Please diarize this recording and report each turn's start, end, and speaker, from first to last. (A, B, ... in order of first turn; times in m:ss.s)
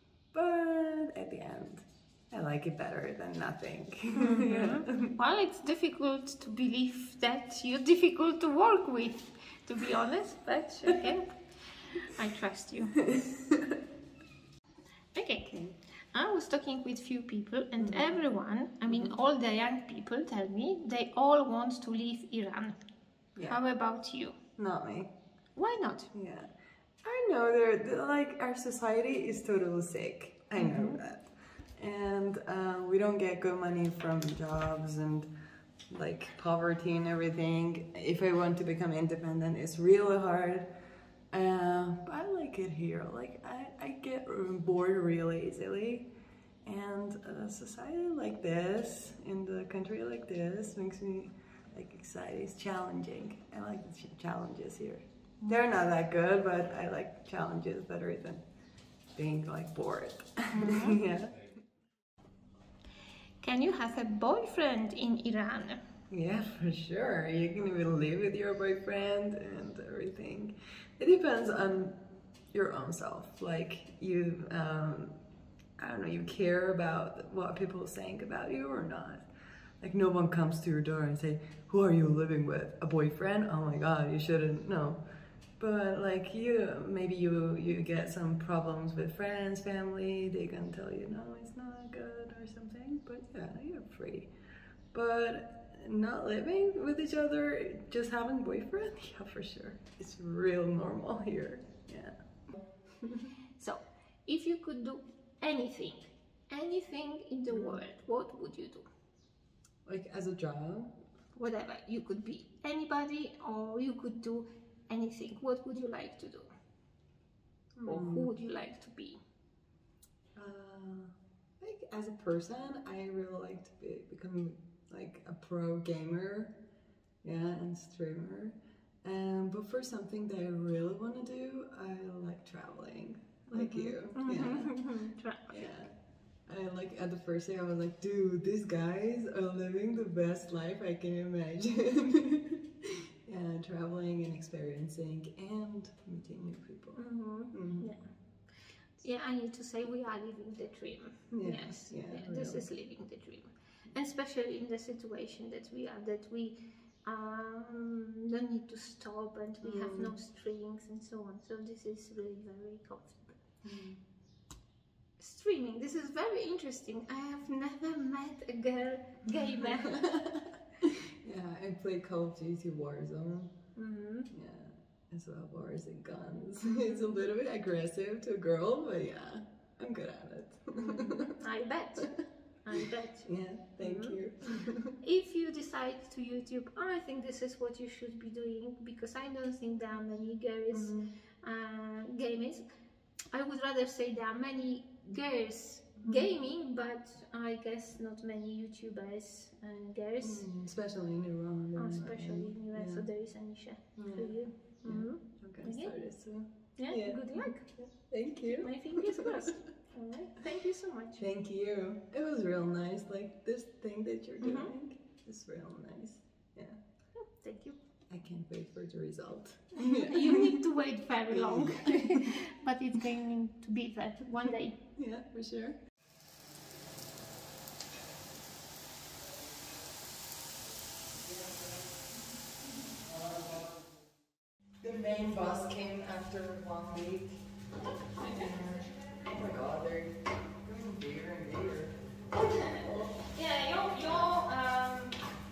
0:00.3-0:05.2 A
0:04.1-0:13.0 B
0:13.1-0:13.7 A
0:15.1-0:22.8 B
0:17.8-0:18.1 A
0:18.9-0:19.2 A
0:23.4-0:23.6 A
0:23.5-0:24.3 B
0:24.6-0:25.1 A
0:25.6-0:26.1 B
0:26.1-0:26.5 A
0:27.0-0:35.3 A
0:30.6-0:31.0 B
0:35.9-0:40.7 A
0:41.3-0:46.1 A
0:46.6-0:58.4 A
0:59.1-1:01.4 A
1:00.5-1:01.0 B
1:03.4-1:05.8 B
1:06.1-1:12.0 A
1:12.5-1:15.2 A
1:15.8-1:19.3 A
1:19.8-1:25.0 A
1:25.6-1:34.3 A
1:34.9-1:42.1 A
1:43.0-1:43.2 A
1:43.6-1:48.8 B
1:47.5-1:47.8 A
1:49.8-1:50.9 A
1:51.4-1:56.5 B
1:57.7-1:58.3 A
1:57.8-1:59.2 B
2:00.3-2:06.6 A
2:07.2-2:14.9 A
2:13.5-2:15.6 B
2:15.5-2:15.9 A
2:16.5-2:27.9 A
2:27.0-2:28.1 B
2:29.0-2:43.4 B
2:31.3-2:32.7 A
2:39.6-2:40.1 A
2:43.6-2:44.0 A
2:45.2-2:50.0 B
2:49.6-2:53.6 A
2:53.8-2:54.3 B
2:54.3-3:01.3 A
3:00.8-3:04.2 B
3:03.2-3:04.9 A
3:04.9-3:12.6 B
3:10.7-3:11.1 A
3:13.3-3:20.4 B
3:16.0-3:16.3 A
3:20.2-3:23.1 A
3:21.8-3:25.9 B
3:23.9-3:29.6 A
3:26.8-3:27.7 B
3:28.4-3:31.2 B
3:31.2-3:36.8 A
3:34.4-3:34.7 B
3:37.1-3:37.8 B
3:38.1-3:40.6 A
3:39.8-3:44.8 B
3:41.3-3:42.4 A
3:44.9-3:45.8 A
3:53.1-3:53.4 A
3:54.8-3:57.4 A
3:58.2-4:02.0 A
4:02.8-4:03.1 A
4:03.3-4:05.2 B